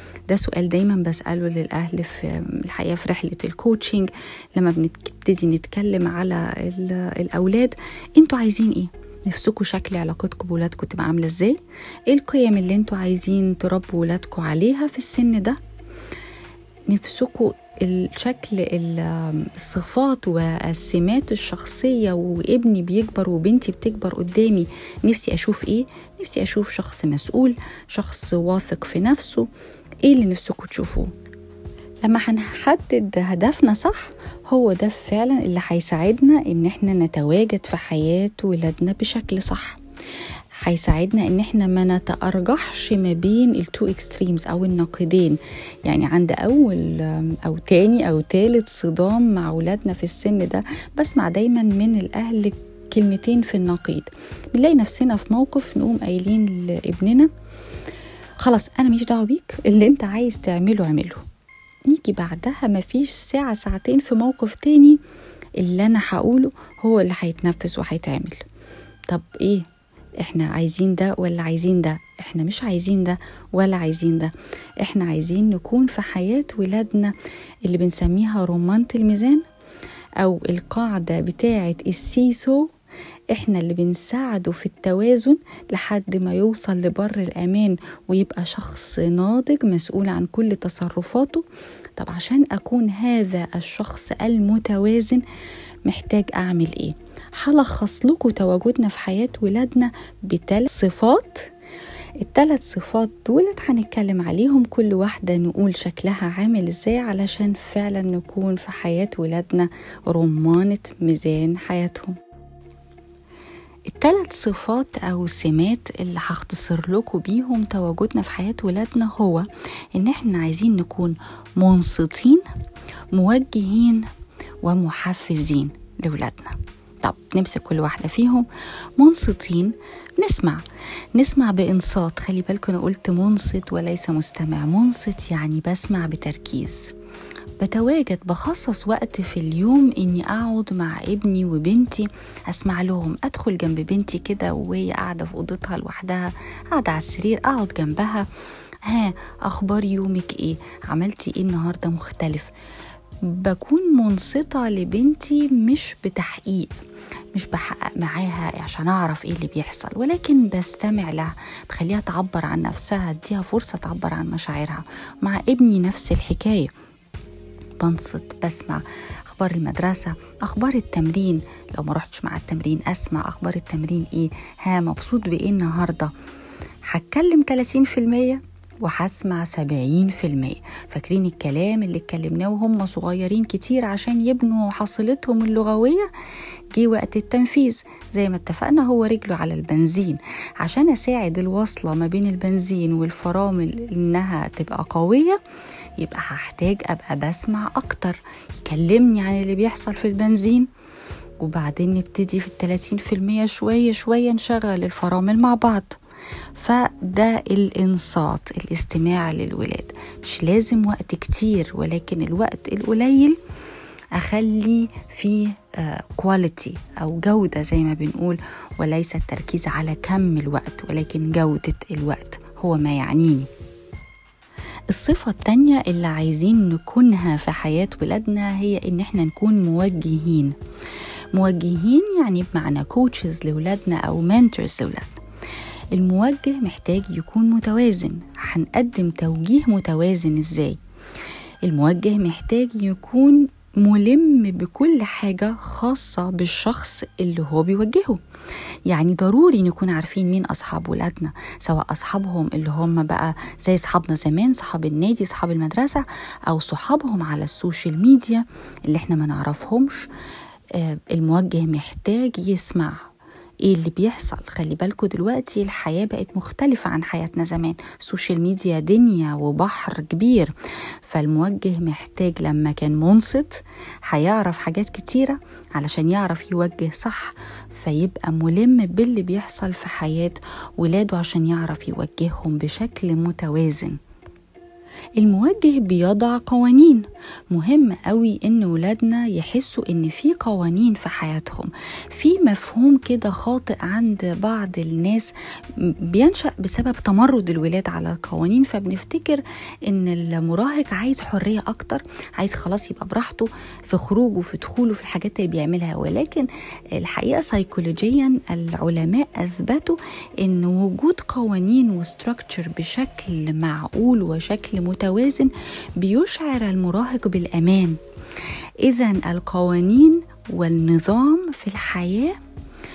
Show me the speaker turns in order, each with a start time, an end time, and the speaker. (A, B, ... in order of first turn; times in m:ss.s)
0:00.3-0:11.6 A
0:12.1-0:15.6 A
0:16.9-0:29.5 A
0:30.0-0:31.1 A
0:32.0-0:39.8 A
0:40.6-0:57.3 A
0:58.4-1:01.2 A
1:01.9-1:05.0 A
1:05.6-1:08.4 A
1:09.1-1:09.6 A
1:10.2-1:17.1 A
1:17.6-1:19.4 A
1:20.2-1:22.7 A
1:23.3-1:31.4 A
1:32.0-1:35.2 A
1:35.8-1:41.5 A
1:42.2-1:52.2 A
1:53.9-2:02.4 A
2:03.1-2:04.1 A
2:04.6-2:08.5 A
2:09.0-2:10.6 A
2:11.1-2:16.9 A
2:17.6-2:28.2 A
2:28.8-2:32.5 A
2:33.2-2:36.7 A
2:37.3-2:46.7 A
2:47.8-2:56.1 A
2:56.9-3:06.1 A
3:06.7-3:15.4 A
3:16.0-3:20.7 A
3:21.4-3:26.0 A
3:26.5-3:33.4 A
3:34.1-3:43.5 A
3:44.9-3:50.5 A
3:51.3-3:55.2 A
3:55.9-4:00.8 A
4:01.6-4:08.2 A
4:08.9-4:20.1 A
4:20.7-4:23.0 A
4:23.6-4:44.0 A
4:45.2-5:18.0 A
5:18.8-5:22.4 A